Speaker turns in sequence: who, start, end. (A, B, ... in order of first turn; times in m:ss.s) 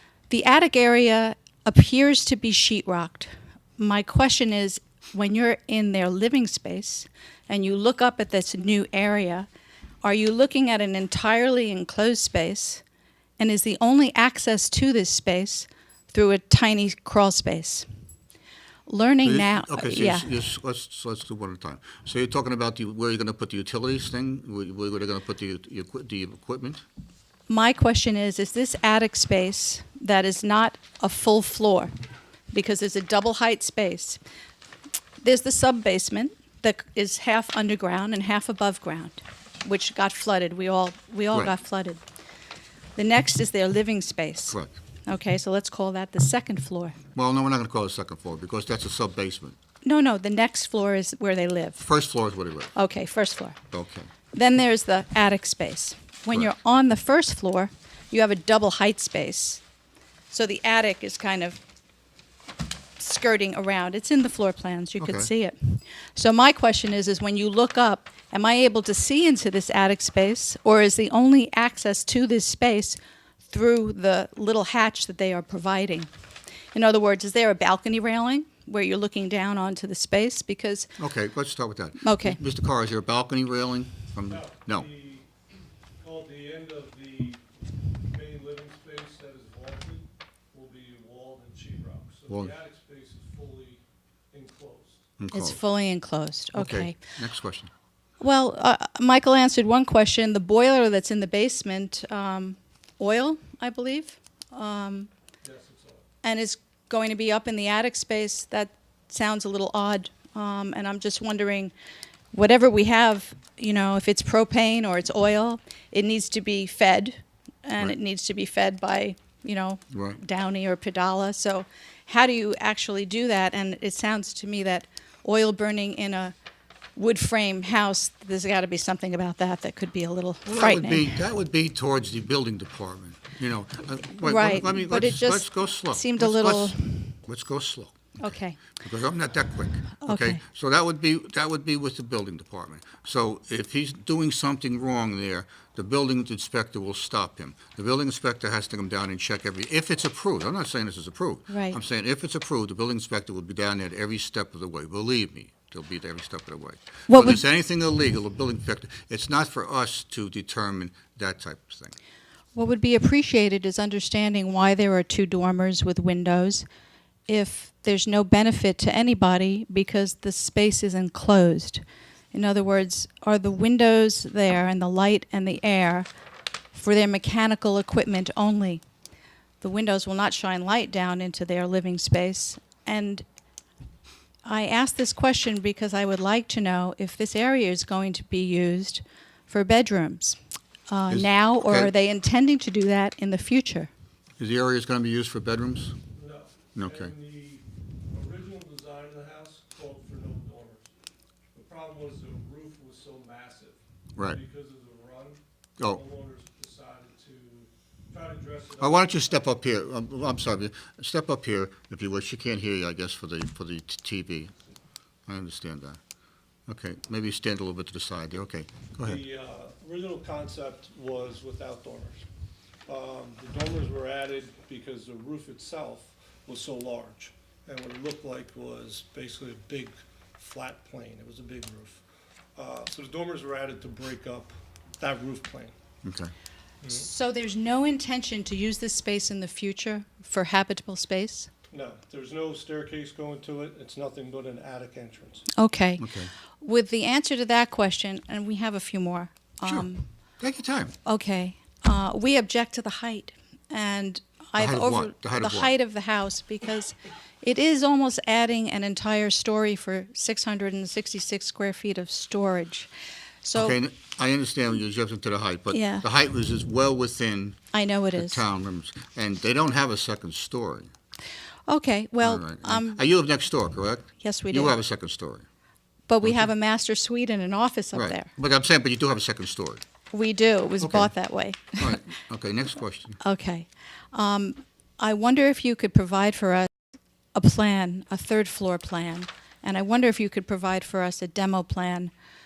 0:00.3-0:09.5 A
0:10.0-0:12.8 A
0:13.4-0:17.9 A
0:18.9-0:20.3 A
0:19.2-0:26.8 B
0:27.5-0:31.9 A
0:32.5-0:34.2 A
0:35.2-0:42.0 A
0:43.0-0:47.0 A
0:44.5-0:44.8 B
0:47.1-0:49.6 B
0:49.8-0:51.9 A
0:51.8-0:52.7 B
0:52.7-0:53.6 A
0:53.7-0:54.1 B
0:54.3-0:59.6 A
1:00.3-1:01.6 A
1:03.0-1:16.1 A
1:05.0-1:05.3 B
1:16.7-1:20.9 A
1:21.0-1:24.9 B
1:22.0-1:22.4 A
1:24.3-1:25.3 C
1:26.0-1:27.4 C
1:28.0-1:33.8 C
1:34.3-1:35.1 C
1:35.2-1:35.6 B
1:35.3-1:37.0 A
1:36.5-1:37.7 B
1:38.2-1:45.1 A
1:45.4-1:46.0 C
1:46.2-1:51.7 A
1:52.3-2:06.3 A
1:59.9-2:00.2 B
2:07.0-2:11.2 A
2:10.4-2:18.2 B
2:14.2-2:17.2 A
2:18.2-2:18.6 A
2:18.7-2:42.0 B
2:20.0-2:20.4 A
2:31.5-2:31.8 A
2:37.1-2:37.4 A
2:42.5-2:46.6 A
2:47.3-2:56.1 A
2:56.7-2:58.8 A
2:59.6-3:03.2 A
3:04.4-3:10.4 A
3:10.9-3:13.9 A
3:11.1-3:11.9 B
3:14.4-3:16.0 B
3:16.1-3:20.8 C
3:16.8-3:17.1 B
3:21.5-3:29.4 C
3:28.8-3:34.6 B
3:35.3-3:36.0 B
3:36.7-3:39.2 B
3:39.0-3:42.2 C
3:42.9-3:52.0 C
3:52.6-3:55.7 C
3:56.0-3:56.3 B
3:56.8-3:57.1 C
3:56.9-4:01.5 A
4:01.7-4:05.5 C
4:05.5-4:10.1 A
4:06.0-4:06.3 B
4:10.4-4:10.9 B
4:11.0-4:22.9 A
4:14.6-4:15.7 B
4:23.4-4:23.8 A
4:23.5-4:27.6 B
4:25.7-4:26.0 A
4:27.7-4:28.4 A
4:28.2-4:30.9 B
4:31.7-4:33.0 A
4:32.2-4:35.4 B
4:34.2-4:34.8 A
4:36.1-4:38.3 A
4:36.2-4:36.5 B
4:37.9-4:39.8 B
4:40.1-4:42.0 A
4:40.8-4:41.1 B
4:41.8-4:43.2 B
4:43.2-4:46.7 A
4:47.3-4:52.1 A